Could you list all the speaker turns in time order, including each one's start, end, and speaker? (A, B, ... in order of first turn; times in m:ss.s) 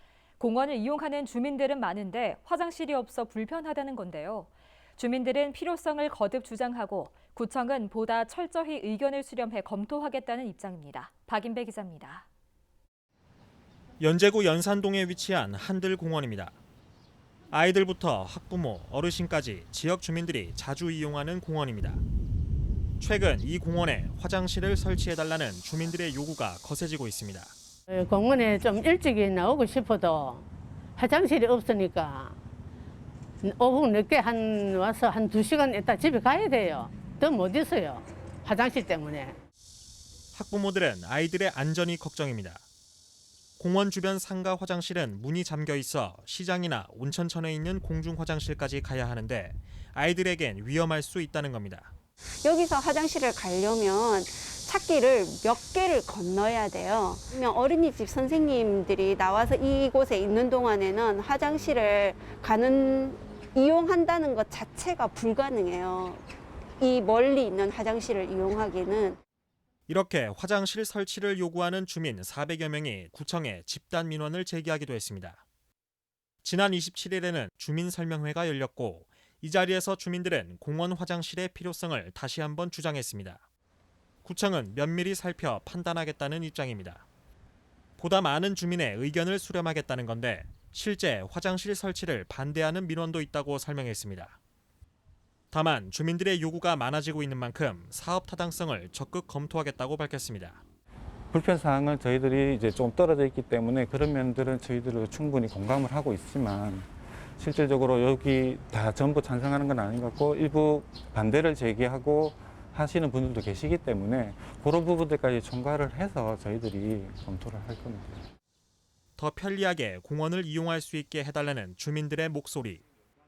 0:00.4-0:12.3 A
0:14.0-0:16.6 B
0:17.5-0:22.0 B
0:23.0-0:27.5 B
0:27.9-0:32.4 C
0:33.4-0:39.4 C
0:40.3-0:42.6 B
0:43.6-0:51.9 B
0:52.4-1:06.2 D
1:06.8-1:09.2 D
1:09.9-1:15.4 B
1:16.4-1:23.4 B
1:24.2-1:27.1 B
1:28.0-1:34.4 B
1:35.5-1:40.6 B
1:41.3-1:58.3 E
1:59.2-2:02.8 B